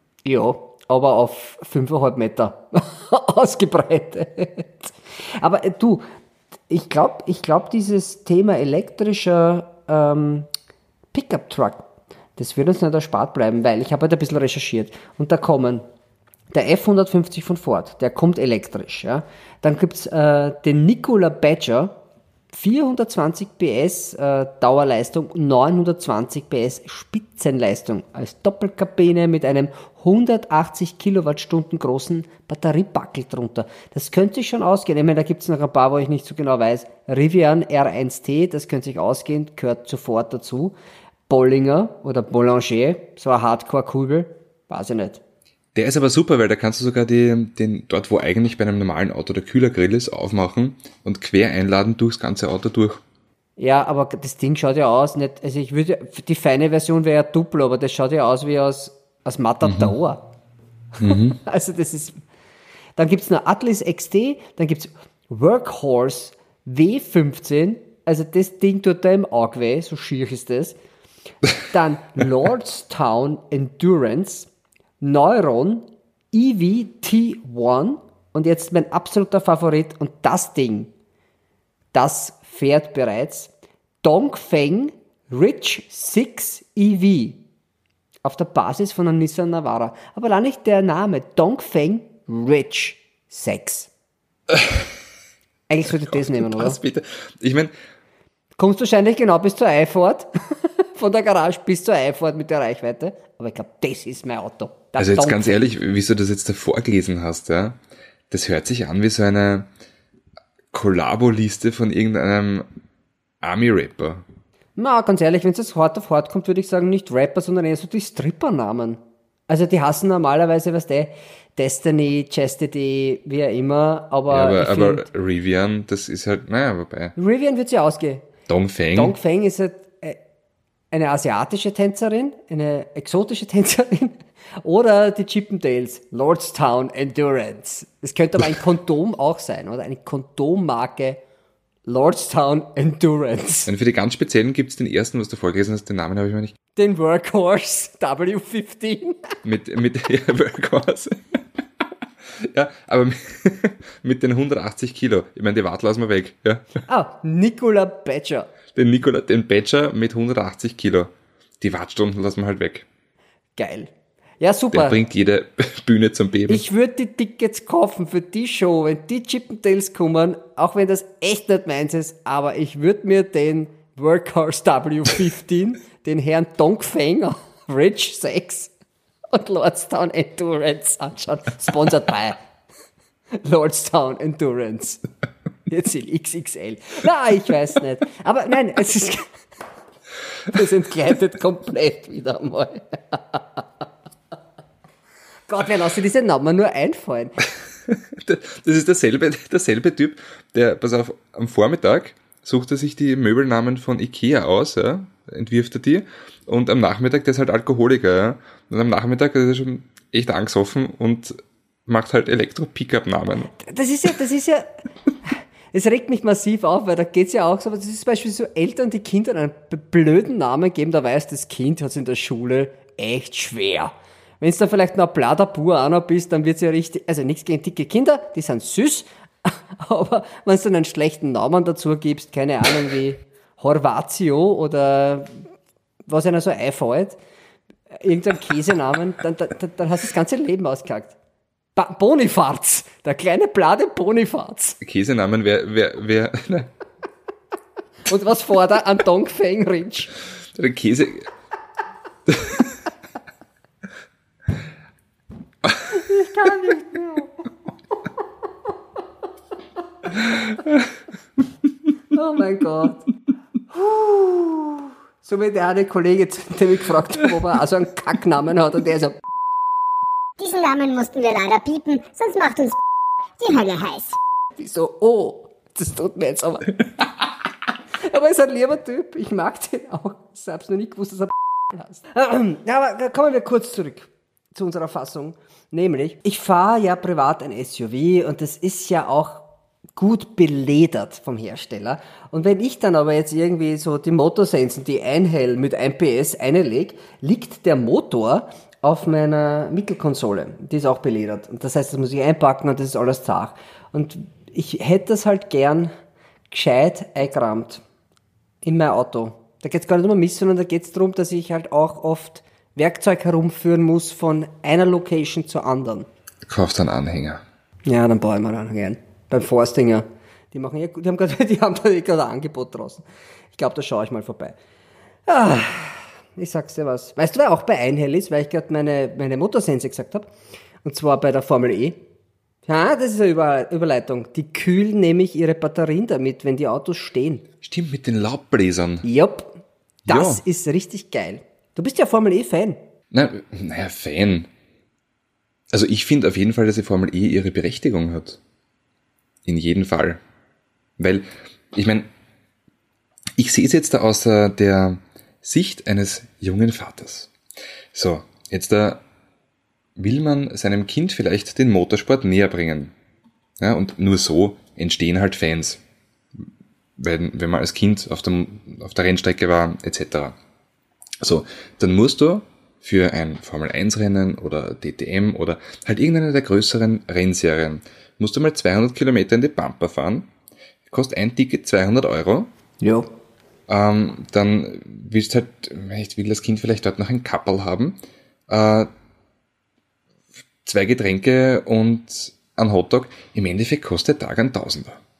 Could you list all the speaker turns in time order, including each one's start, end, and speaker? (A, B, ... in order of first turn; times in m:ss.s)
0:00.2-0:06.0 A
0:06.7-0:10.5 A
0:11.1-0:11.8 A
0:12.4-0:15.8 A
0:16.5-0:21.9 A
0:22.5-0:40.8 A
0:41.3-0:45.2 A
0:45.7-0:53.0 B
0:53.6-1:00.2 A
0:59.6-0:59.9 B
1:01.0-1:01.4 B
1:01.0-1:02.2 A
1:03.0-1:10.8 A
1:11.6-1:14.5 A
1:15.0-1:20.9 A
1:21.9-1:23.5 A
1:24.0-1:27.4 A
1:28.2-1:33.9 A
1:35.7-1:36.8 A
1:35.9-1:37.7 B
1:38.6-1:45.6 A
1:45.0-1:47.8 B
1:48.3-1:49.7 B
1:50.7-1:52.7 B
1:53.4-1:54.2 B
1:54.8-2:05.0 A
2:04.3-2:07.1 B
2:07.2-2:08.3 A
2:08.5-2:09.2 B
2:08.9-2:10.2 A
2:10.9-2:21.2 A
2:21.8-2:23.7 A
2:23.7-2:26.5 B
2:26.8-2:29.4 A
2:29.4-2:31.4 B
2:32.4-2:36.6 B
2:36.9-2:38.5 A
2:38.7-2:42.9 B
2:43.6-2:45.0 A
2:44.7-2:46.6 B
2:46.5-2:58.7 A
2:59.3-3:02.4 A
3:03.4-3:05.0 A
3:05.7-3:09.3 A
3:10.5-3:13.6 A
3:15.5-3:17.4 A
3:17.9-3:33.5 B
3:33.5-3:34.7 A
3:35.2-3:55.4 A
3:56.1-3:57.2 A
3:57.9-4:01.2 A
4:01.8-4:04.8 A
4:04.8-4:06.7 B
4:08.1-4:10.1 A
4:10.5-4:11.3 B
4:12.3-4:12.6 B
4:15.6-4:16.0 B
4:15.9-4:17.4 A
4:22.1-4:23.0 A
4:23.7-4:29.2 A
4:30.4-4:32.8 C
4:33.4-4:34.2 C
4:34.6-4:36.8 A
4:38.0-5:05.9 A
5:06.5-5:07.8 A
5:08.6-5:16.1 A
5:16.4-5:17.4 B
5:17.8-5:23.0 A
5:23.5-5:24.6 A
5:25.3-5:30.3 A
5:30.8-5:32.0 A
5:32.7-5:37.4 A
5:37.6-5:39.0 B
5:39.0-5:39.5 A
5:40.1-5:40.4 B
5:40.1-5:42.8 A
5:43.1-5:44.5 B
5:45.7-5:48.4 B
5:49.4-5:50.2 B
5:51.0-5:52.1 B
5:53.4-5:57.3 B
5:57.9-5:59.0 B
6:00.0-6:02.9 B
6:03.6-6:05.8 B
6:07.0-6:10.4 B
6:11.2-6:20.3 B
6:20.9-6:22.5 B
6:22.8-6:23.1 A
6:23.7-6:28.9 B
6:30.6-6:35.0 B